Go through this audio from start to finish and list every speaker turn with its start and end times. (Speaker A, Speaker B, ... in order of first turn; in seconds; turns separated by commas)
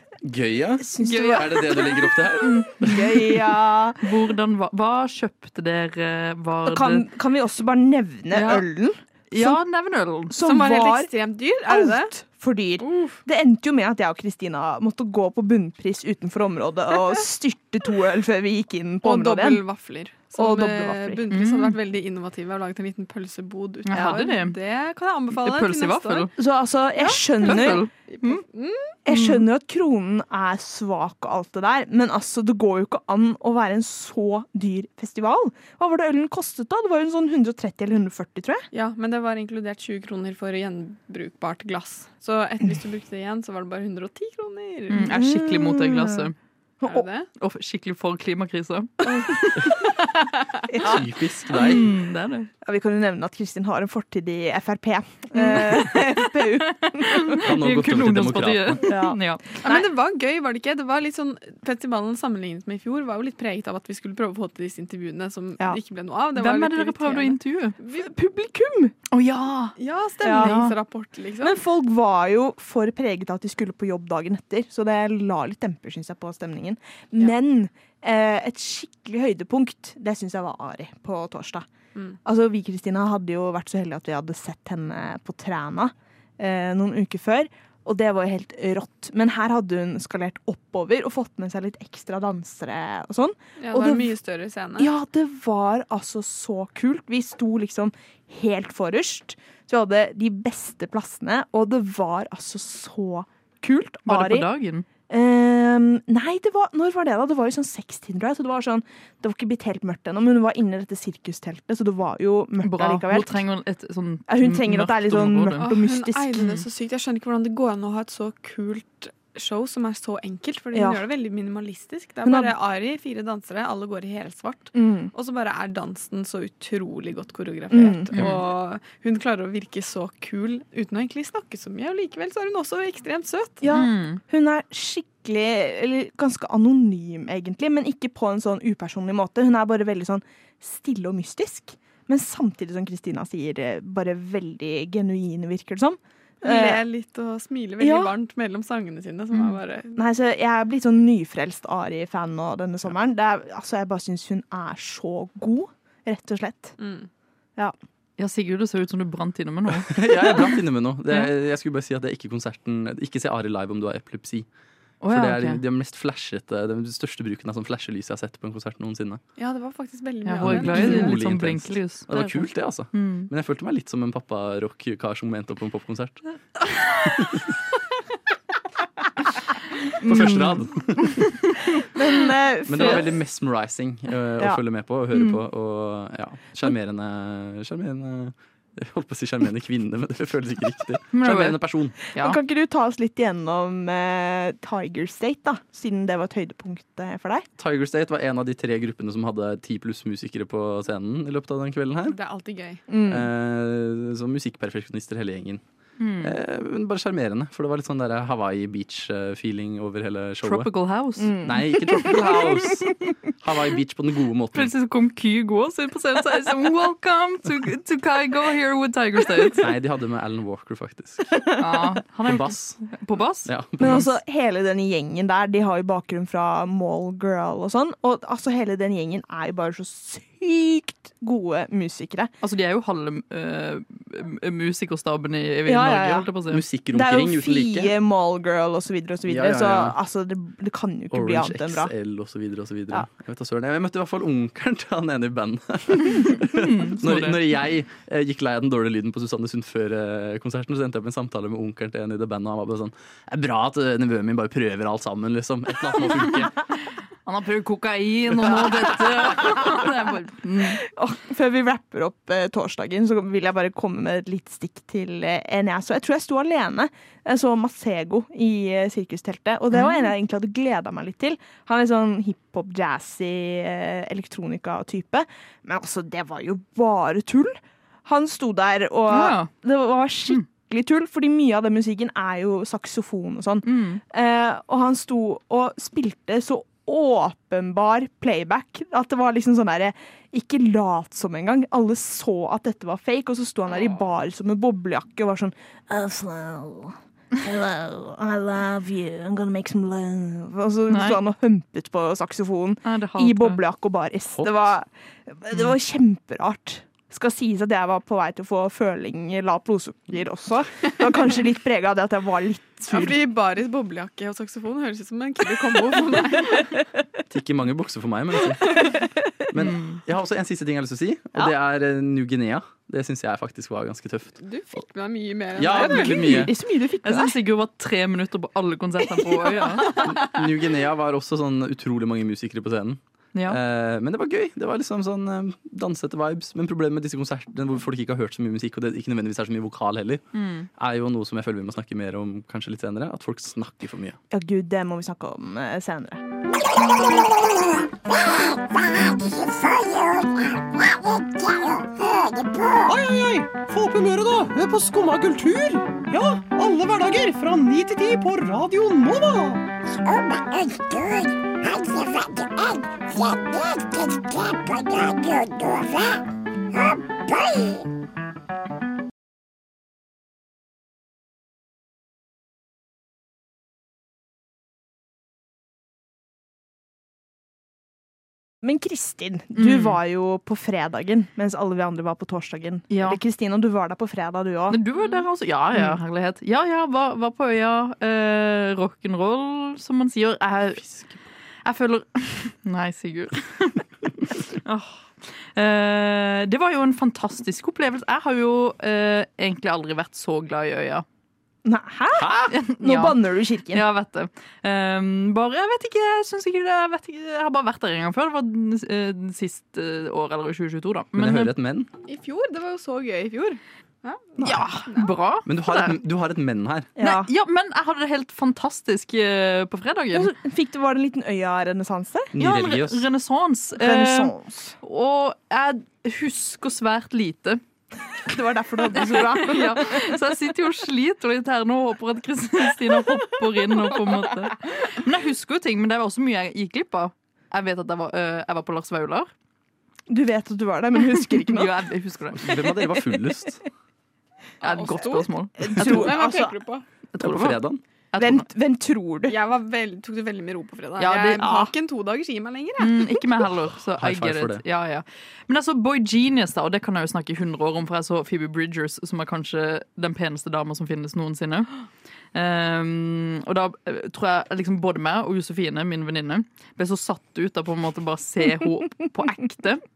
Speaker A: 0.2-3.1, Speaker B: 0.8-4.0, Speaker C: 1.0-1.9, Speaker C: 2.4-3.4, Speaker C: 4.0-7.1, Speaker B: 6.7-9.6, Speaker C: 8.3-8.6, Speaker C: 9.3-10.3, Speaker B: 10.3-11.1, Speaker D: 10.4-12.1, Speaker B: 11.7-19.6, Speaker D: 12.8-13.2, Speaker D: 19.0-26.3, Speaker B: 20.4-21.2, Speaker C: 21.3-21.8, Speaker C: 23.9-24.6, Speaker B: 23.9-24.2, Speaker C: 25.3-26.3, Speaker B: 26.4-27.8, Speaker D: 27.0-28.9, Speaker C: 27.4-28.4, Speaker B: 29.1-38.6, Speaker C: 29.1-29.5, Speaker D: 38.7-45.1, Speaker C: 44.9-46.4, Speaker B: 45.1-46.3, Speaker D: 46.9-47.3, Speaker C: 47.4-50.0, Speaker B: 49.1-49.7, Speaker B: 50.7-51.0, Speaker A: 50.8-51.9, Speaker C: 51.5-52.5, Speaker B: 52.6-57.4, Speaker C: 55.4-59.6, Speaker A: 57.4-58.9, Speaker B: 58.8-59.9, Speaker D: 59.6-68.1, Speaker C: 66.4-67.8, Speaker B: 67.9-68.9, Speaker C: 69.1-69.8, Speaker D: 69.8-71.6, Speaker B: 70.2-70.6, Speaker C: 70.3-70.8, Speaker B: 71.4-81.7, Speaker B: 82.2-94.1, Speaker D: 93.6-94.9, Speaker B: 94.8-104.5, Speaker C: 104.1-104.9, Speaker B: 105.1-113.4, Speaker C: 112.6-115.6, Speaker B: 114.3-116.4, Speaker D: 115.6-133.6, Speaker C: 116.4-116.6, Speaker B: 120.7-121.0, Speaker B: 122.2-122.5, Speaker B: 124.7-125.1, Speaker B: 127.7-128.2, Speaker C: 128.1-128.4, Speaker B: 133.6-146.8, Speaker C: 133.7-134.2, Speaker D: 146.4-150.0, Speaker B: 147.8-148.1, Speaker B: 149.9-156.8, Speaker D: 156.8-157.1, Speaker C: 158.2-160.6, Speaker A: 159.9-164.5, Speaker C: 165.0-165.6, Speaker A: 165.1-169.2, Speaker D: 169.4-171.1, Speaker C: 170.2-173.3, Speaker A: 170.4-176.2, Speaker A: 177.1-177.5, Speaker C: 179.9-181.8, Speaker A: 180.0-181.2, Speaker B: 181.9-183.1, Speaker A: 182.7-192.0, Speaker C: 185.1-185.4, Speaker C: 191.1-192.4, Speaker B: 192.2-197.5, Speaker A: 197.6-202.2, Speaker D: 202.1-202.8, Speaker B: 202.9-203.3, Speaker A: 203.1-205.6, Speaker C: 206.0-206.4, Speaker A: 206.2-210.7, Speaker C: 210.4-211.5, Speaker B: 211.2-212.4, Speaker A: 211.4-214.7, Speaker C: 212.0-212.4, Speaker C: 214.5-219.7, Speaker A: 219.6-221.3, Speaker C: 221.6-224.1, Speaker A: 222.2-222.8, Speaker A: 223.5-224.1, Speaker B: 223.8-232.3, Speaker C: 232.4-236.6, Speaker B: 235.7-236.3, Speaker A: 236.5-237.9, Speaker B: 236.9-241.9, Speaker A: 239.3-240.0, Speaker A: 241.1-256.6, Speaker C: 246.2-247.5, Speaker C: 257.2-260.8, Speaker B: 260.8-313.2, Speaker C: 269.7-270.1, Speaker C: 279.1-279.5, Speaker C: 283.6-284.0, Speaker C: 300.9-301.2, Speaker C: 302.9-303.6, Speaker A: 304.3-304.7, Speaker D: 312.9-316.8, Speaker A: 317.3-318.9, Speaker B: 318.9-319.2, Speaker A: 319.5-324.4, Speaker C: 319.6-320.0, Speaker D: 324.4-326.5, Speaker A: 325.6-326.5, Speaker B: 325.7-327.4, Speaker C: 327.0-330.0, Speaker A: 330.0-340.2, Speaker C: 333.3-333.6, Speaker C: 340.3-340.7, Speaker A: 340.8-344.2, Speaker B: 344.3-346.2, Speaker E: 346.5-367.9, Speaker B: 378.6-384.8, Speaker C: 379.6-380.0, Speaker C: 382.9-383.2, Speaker C: 384.7-390.8, Speaker A: 390.8-391.2, Speaker C: 391.6-401.1, Speaker B: 401.6-403.8, Speaker A: 402.1-402.6, Speaker C: 402.5-403.2, Speaker C: 403.7-411.5, Speaker A: 411.1-411.9, Speaker D: 412.1-415.1, Speaker A: 414.4-414.7, Speaker C: 414.4-416.0, Speaker A: 415.5-416.9, Speaker B: 417.0-417.3, Speaker C: 417.0-420.3, Speaker B: 420.1-422.3, Speaker A: 422.3-423.1, Speaker C: 422.4-427.6, Speaker B: 423.8-424.8, Speaker B: 428.3-430.2, Speaker C: 428.9-439.3, Speaker B: 440.1-441.7, Speaker C: 441.2-442.7, Speaker A: 442.4-443.6, Speaker C: 444.6-446.1, Speaker D: 444.6-446.8, Speaker B: 445.6-446.6, Speaker C: 447.1-447.6, Speaker A: 447.2-447.8, Speaker C: 448.1-448.4, Speaker B: 448.2-449.4, Speaker D: 449.3-453.2, Speaker C: 451.0-451.6, Speaker B: 451.4-451.7, Speaker C: 452.8-461.7, Speaker A: 454.0-454.6, Speaker C: 462.3-469.8